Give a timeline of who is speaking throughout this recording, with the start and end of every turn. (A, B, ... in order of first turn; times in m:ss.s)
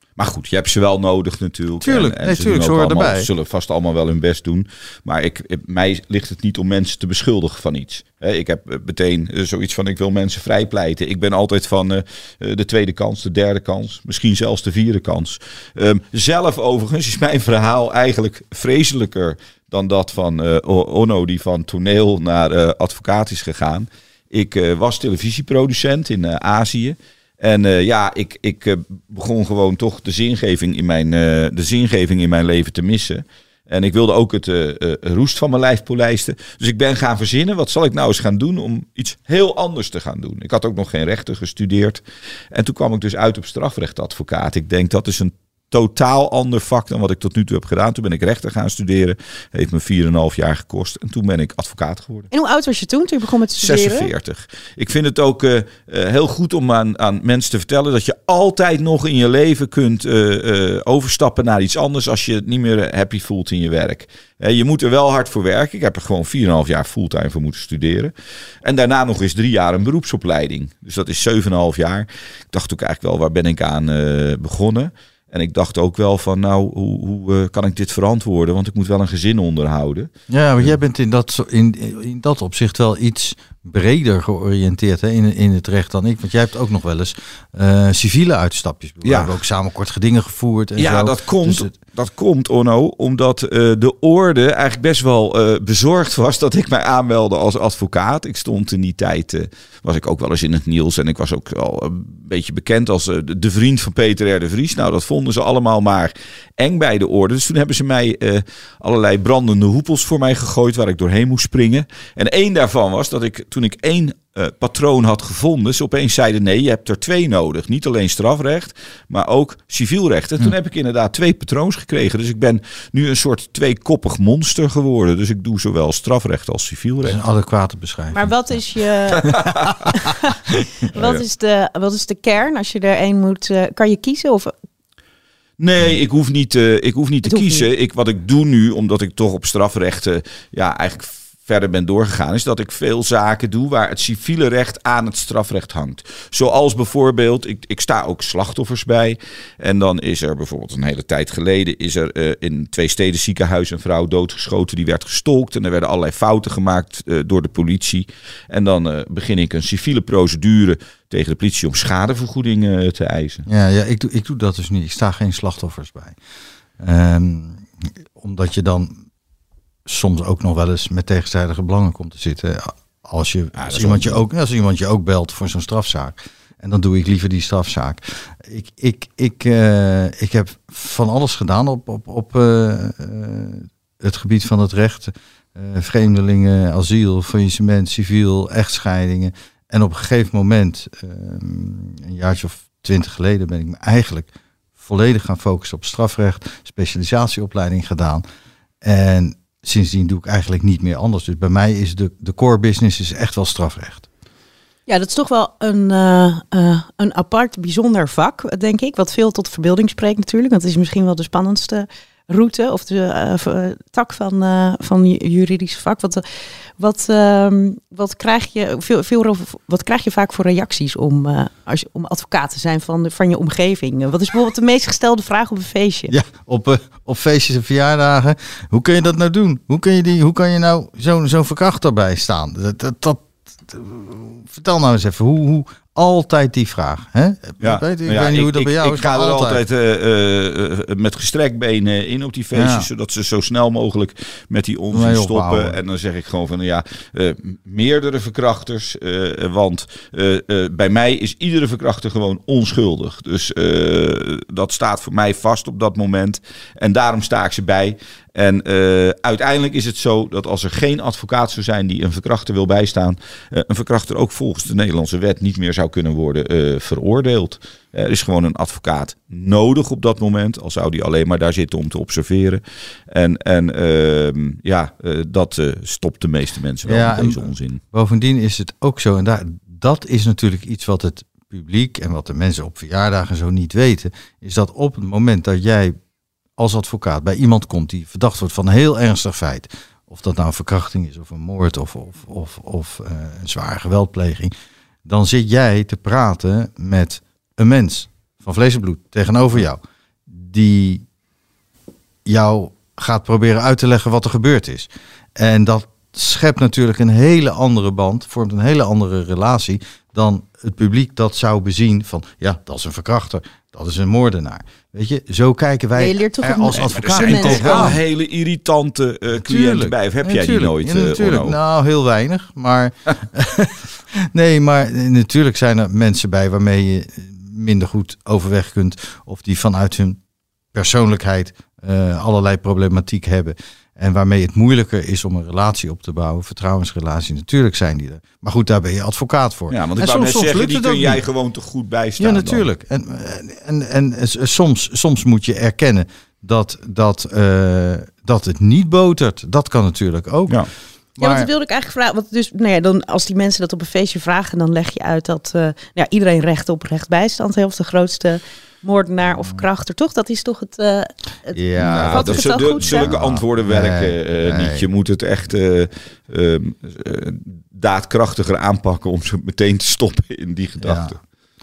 0:00.2-0:52.3 A
0:01.8-0:03.3 B
0:52.3-0:54.1 C
0:53.6-1:08.1 A
1:08.6-1:20.1 A
1:20.3-1:31.7 B
1:29.0-1:29.4 A
1:30.8-2:07.2 A
2:07.0-2:08.3 B
2:08.1-2:09.3 C
2:09.2-2:09.9 A
2:09.9-2:14.5 C
2:10.9-2:11.2 A
2:15.6-2:43.4 A
2:17.2-2:17.7 C
2:43.5-2:46.2 B
2:46.8-2:49.0 B
2:49.8-3:14.3 B
2:53.5-2:54.2 A
3:14.8-3:18.2 B
3:18.8-3:24.1 B
3:24.9-3:36.2 C
3:36.8-3:46.1 C
3:46.1-3:59.6 B
3:57.6-4:37.8 A
4:02.5-4:02.9 B
4:04.9-4:05.8 B
4:36.8-4:45.9 B
4:46.6-4:54.5 B
4:55.0-5:01.0 B
5:02.3-5:18.0 B
5:16.0-5:18.0 C
5:16.7-5:21.6 A
5:19.4-5:30.2 B
5:30.7-5:41.2 B
5:39.7-5:42.7 A
5:42.2-5:50.6 B
5:51.2-5:51.5 B
5:51.2-6:03.1 C
6:01.5-6:04.8 B
6:01.8-6:11.2 A
6:10.8-6:11.2 B